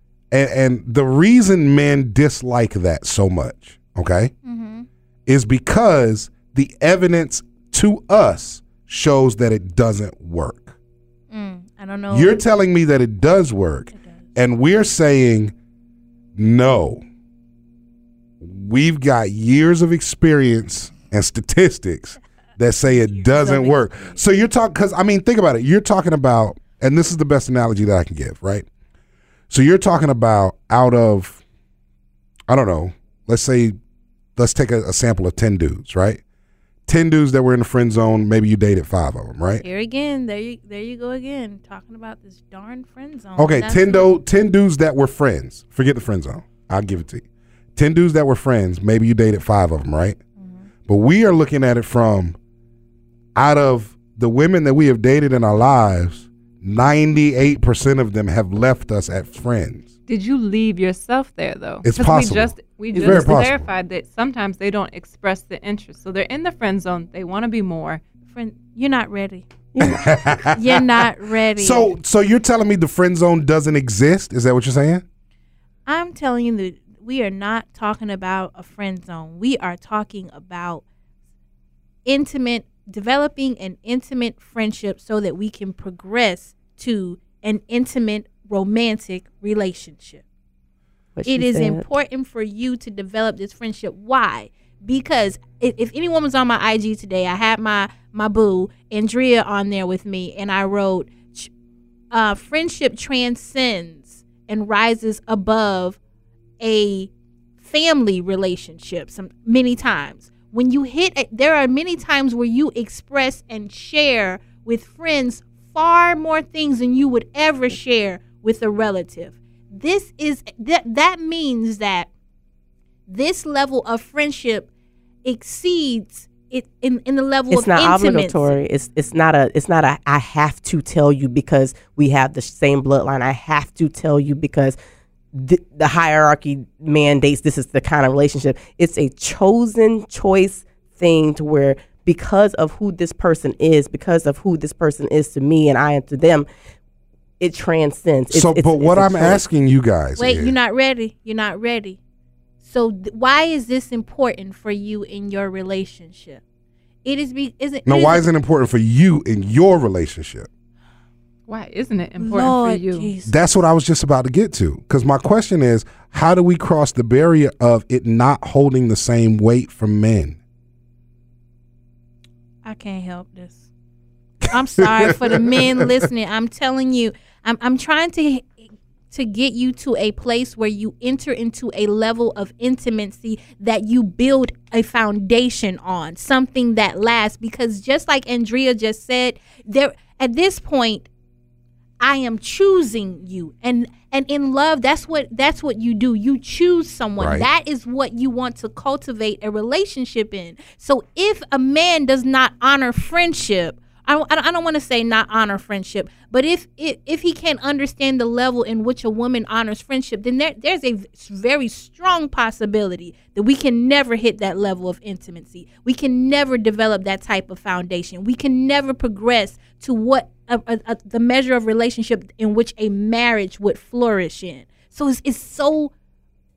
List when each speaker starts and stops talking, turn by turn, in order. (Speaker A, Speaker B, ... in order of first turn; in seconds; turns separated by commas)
Speaker A: 0.3-4.3, Speaker B: 4.5-4.9, Speaker A: 5.3-10.8, Speaker B: 11.3-12.4, Speaker A: 12.1-15.5, Speaker A: 16.4-17.0, Speaker A: 18.4-28.7, Speaker B: 22.9-24.2, Speaker A: 29.5-31.4, Speaker A: 32.5-33.8, Speaker A: 34.4-36.2, Speaker A: 36.9-39.6, Speaker B: 39.6-44.2, Speaker A: 43.4-47.2, Speaker A: 47.8-50.2, Speaker A: 50.9-52.4, Speaker A: 53.4-59.9, Speaker C: 60.1-68.0, Speaker A: 61.8-63.7, Speaker D: 62.9-63.4, Speaker B: 68.3-69.5, Speaker D: 69.7-70.1, Speaker A: 69.8-70.9, Speaker B: 70.5-71.9, Speaker A: 71.6-75.0, Speaker B: 75.9-80.8, Speaker B: 82.1-90.2, Speaker D: 91.2-91.8, Speaker B: 91.3-101.5, Speaker B: 102.1-106.0, Speaker B: 106.6-107.1, Speaker B: 107.6-122.1, Speaker B: 123.1-124.7, Speaker B: 125.2-128.6, Speaker D: 127.5-134.8, Speaker D: 135.3-146.5, Speaker D: 147.4-149.4, Speaker A: 148.3-150.6, Speaker B: 150.2-152.0, Speaker B: 152.6-156.4, Speaker B: 157.0-158.3, Speaker A: 157.9-160.5, Speaker C: 161.5-163.1, Speaker B: 162.2-163.3, Speaker A: 163.3-170.4, Speaker B: 172.7-173.7, Speaker B: 174.5-178.6, Speaker A: 174.8-175.9, Speaker B: 179.1-191.1, Speaker B: 192.0-225.9, Speaker A: 197.2-197.5